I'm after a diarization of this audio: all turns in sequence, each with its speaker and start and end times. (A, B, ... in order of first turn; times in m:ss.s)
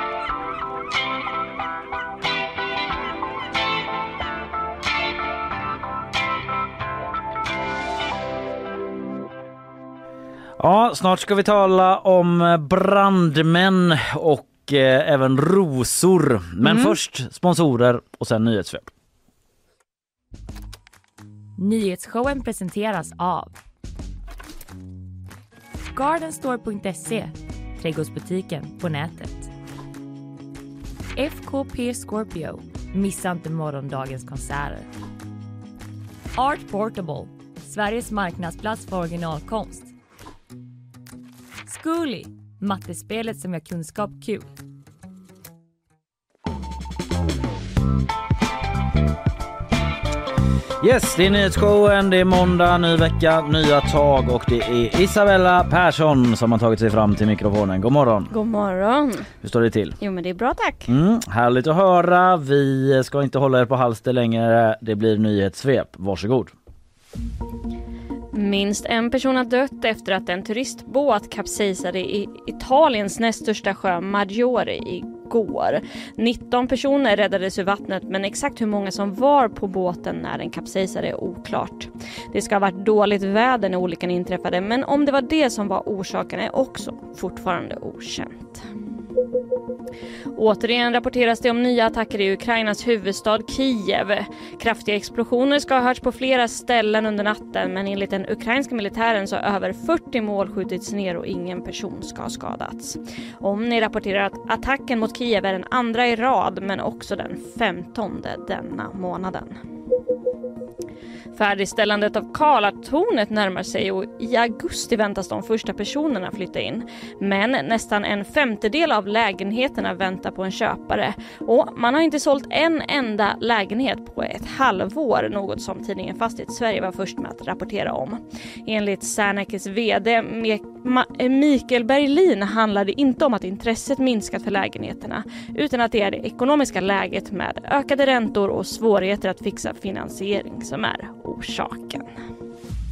0:10.6-0:18.9 A
0:21.6-0:23.5 B
0:25.9-0:29.5 B
0:31.1-0:34.9 B
0:36.4-0:39.9 B
0:41.6-0:44.5 B
0:50.8-0:58.3 A
0:58.3-0:59.3 C
0:59.4-1:00.0 A
1:00.0-1:00.9 C
1:00.9-1:06.5 A
1:08.3-1:28.6 C
1:30.4-1:49.6 C
1:51.3-2:22.1 C